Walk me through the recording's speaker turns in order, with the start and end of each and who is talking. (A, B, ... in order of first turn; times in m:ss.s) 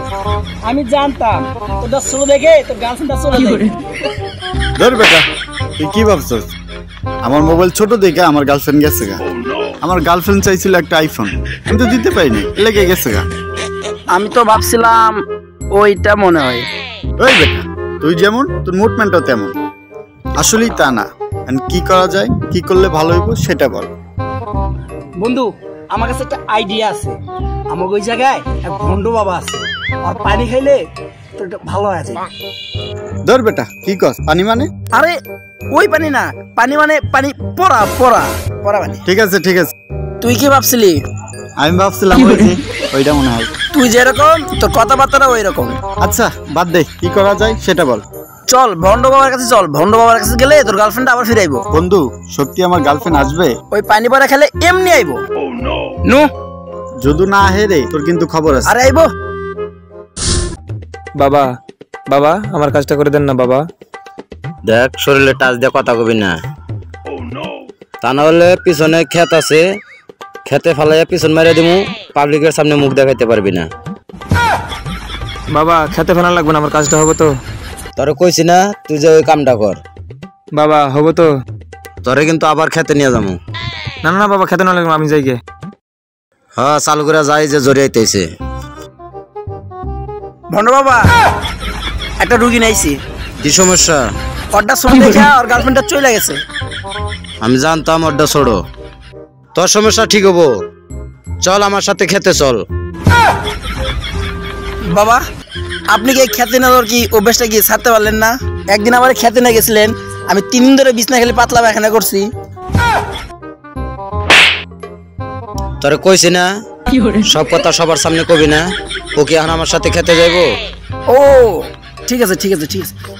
0:00.6-0:03.7 A
0:04.8-0:05.2 B
0:05.8-0:06.5 B
0:07.2-0:09.2 B
0:09.8-0:13.2 B
0:14.1-0:15.2 A
0:15.7-0:16.7 A
0:17.2-0:19.5 B
0:20.4-0:23.9 B
0:25.2-0:27.2 A
0:27.7-0:30.8 A
0:31.4-0:32.2 A
0:33.3-0:34.7 B
0:35.7-0:39.0 A
0:39.1-0:39.7 B
0:40.2-0:41.0 A
0:41.6-0:43.5 B
0:43.7-0:45.8 A
0:46.0-0:48.0 B
0:48.5-0:51.6 A
0:51.7-0:53.5 B
0:53.7-0:55.2 A
0:57.0-0:58.7 B
0:58.7-0:59.1 A
1:01.2-1:01.5 C
1:02.1-1:03.6 C
1:04.7-1:06.3 D
1:08.0-1:09.6 D
1:10.5-1:13.7 D
1:15.5-1:17.4 C
1:18.0-1:19.8 D
1:20.5-1:21.3 C
1:22.0-1:23.4 D
1:24.0-1:25.4 C
1:26.6-1:28.3 D
1:30.5-1:31.0 A
1:32.2-1:33.0 A
1:33.4-1:34.0 D
1:34.5-1:36.4 A
1:37.4-1:38.6 D
1:39.6-1:40.5 D
1:41.4-1:42.6 D
1:44.9-1:45.2 A
1:45.9-1:52.3 A
1:55.8-1:56.5 D
1:57.2-1:58.6 D
1:59.2-2:00.5 D
2:01.1-2:02.9 A